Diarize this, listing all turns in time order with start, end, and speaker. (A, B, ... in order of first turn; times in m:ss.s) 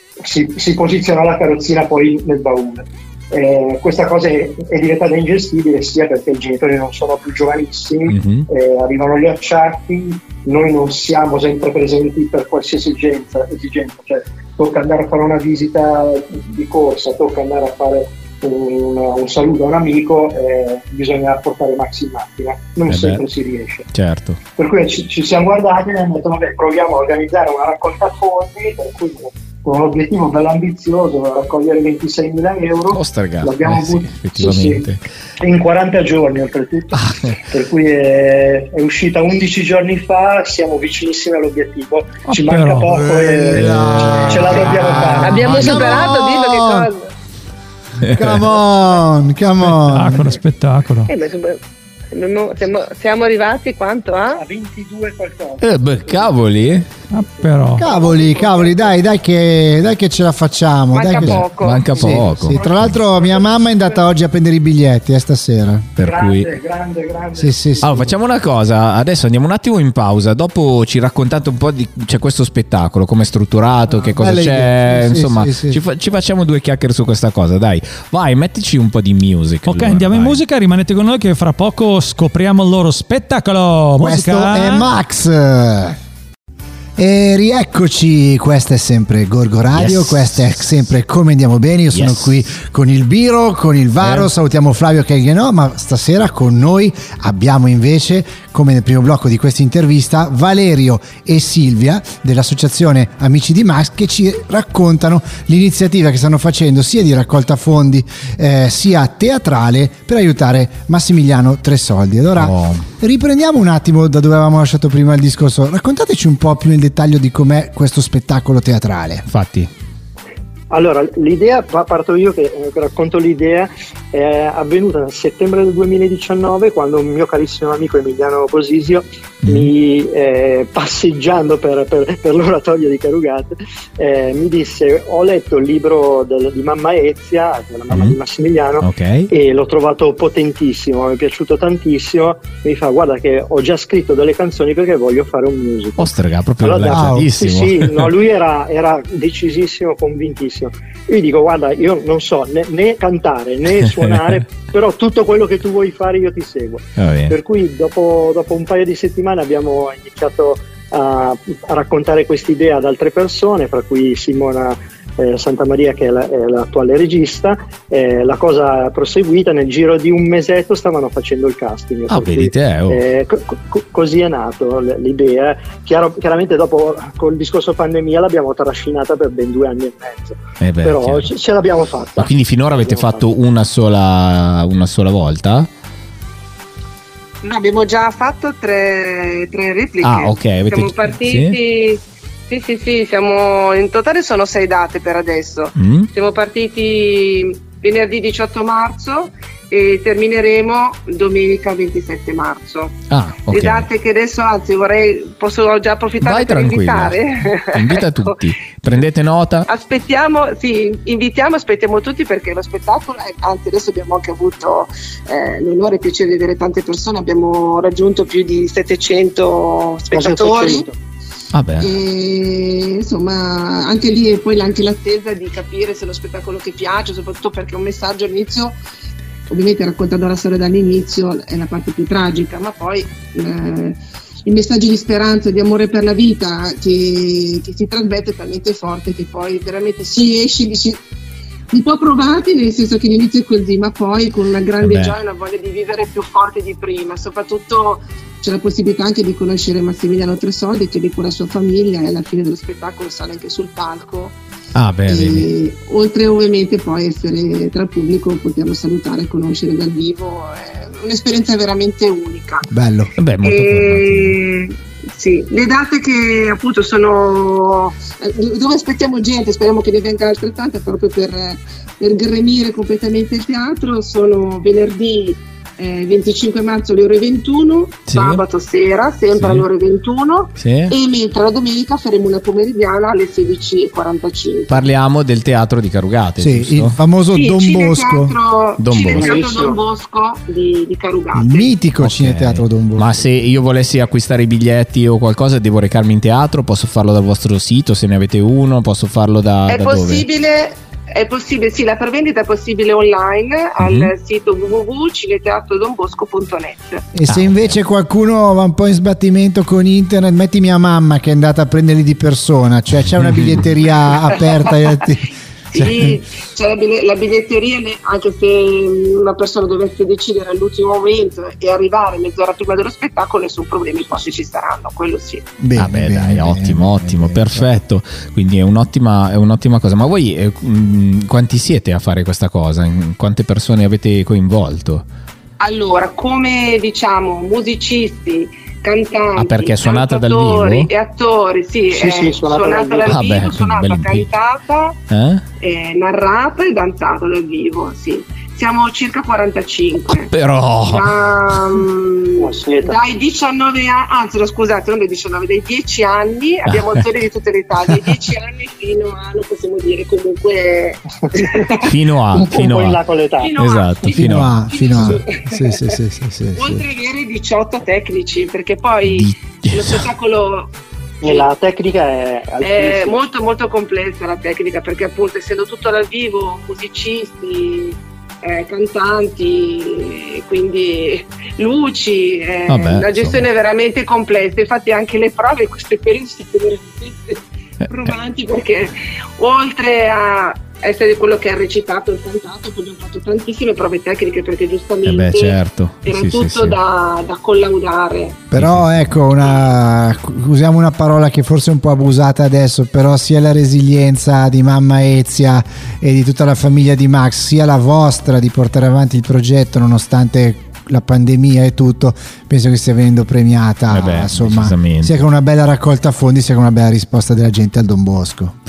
0:00.2-0:23.8 A
0:08.1-0:08.4 B
0:22.9-0:23.2 B
0:23.9-0:24.4 B
0:24.6-0:34.9 A
0:32.9-0:35.0 B
0:35.4-0:45.8 A
0:36.9-0:37.4 B
0:42.2-0:43.0 C
0:42.9-0:46.9 D
0:43.5-0:45.1 B
0:45.2-0:47.1 E
0:48.0-0:48.5 B
0:48.1-0:50.4 D
0:49.6-0:51.1 C
0:51.1-0:51.6 E
0:52.1-0:54.4 E
0:54.3-0:56.8 A
0:55.6-0:56.9 B
0:57.1-0:57.8 C
0:57.4-0:58.9 A
0:57.8-1:05.9 D
1:00.9-1:02.3 E
1:01.2-1:03.0 B
1:02.5-1:04.0 A
1:06.0-1:06.5 B
1:06.0-1:08.2 A
1:07.3-1:08.0 D
1:07.8-1:20.4 B
1:14.0-1:15.8 D
1:19.6-1:24.9 C
1:24.0-1:26.0 D
1:27.0-1:59.2 D
1:29.7-1:30.9 B
1:31.9-1:32.4 B
1:34.0-1:34.3 B
1:52.4-1:52.9 B
1:59.3-1:59.7 B
2:00.7-3:03.3 A
2:09.4-2:09.7 B
2:17.9-2:18.2 B
2:18.8-2:19.3 B
2:26.0-2:28.1 B
2:26.8-2:27.3 D
2:37.0-2:37.4 B
2:52.1-2:53.0 B
3:00.6-3:01.3 B
3:02.2-3:05.7 B
3:07.4-3:23.0 E
3:10.0-3:11.6 B
3:15.8-3:16.1 B
3:23.1-3:23.9 B
3:23.5-3:28.4 E
3:26.2-3:27.2 B
3:27.7-3:29.7 B
3:29.7-3:40.9 E
3:40.1-3:40.9 A
3:41.5-3:41.9 B
3:41.8-3:48.8 E
3:49.5-4:01.0 E
4:01.7-4:14.4 E
4:04.8-4:05.2 B
4:14.7-4:15.5 B
4:15.1-4:22.7 E
4:22.7-4:23.1 D
4:23.2-4:24.4 B
4:23.4-4:44.9 E
4:38.1-4:38.4 B
4:39.3-4:39.6 B
4:40.6-4:40.9 B
4:44.7-4:47.0 B
4:46.4-4:48.3 D
4:47.3-4:51.7 E
4:48.8-4:49.3 B
4:49.1-4:49.8 A
4:51.3-4:53.1 D
4:52.0-5:00.2 B
4:59.7-5:07.0 E
5:03.8-5:04.1 B
5:07.1-5:16.2 D
5:07.3-5:07.7 B
5:13.2-5:13.6 B
5:15.7-5:25.4 E
5:25.6-5:27.7 D
5:25.8-5:35.0 B
5:35.6-5:45.0 E
5:39.4-5:40.9 B
5:41.9-5:43.3 A
5:43.0-5:44.3 B
5:45.1-5:45.4 B
5:45.6-5:50.3 E
5:50.3-5:51.7 B
5:50.8-6:01.8 E
5:52.4-5:53.0 A
5:56.7-5:57.0 B
6:01.8-6:03.0 B
6:02.3-6:03.5 A
6:03.4-6:05.9 E
6:03.6-6:05.1 B
6:04.1-6:06.8 D
6:06.5-6:10.7 E
6:09.0-6:10.0 B
6:11.2-6:13.2 A
6:11.2-6:11.5 E
6:12.6-6:38.4 E
6:22.7-6:23.5 B
6:35.0-6:36.8 B
6:38.5-6:58.5 D
6:38.6-6:39.1 B
6:39.4-6:39.8 E
6:53.9-6:55.2 B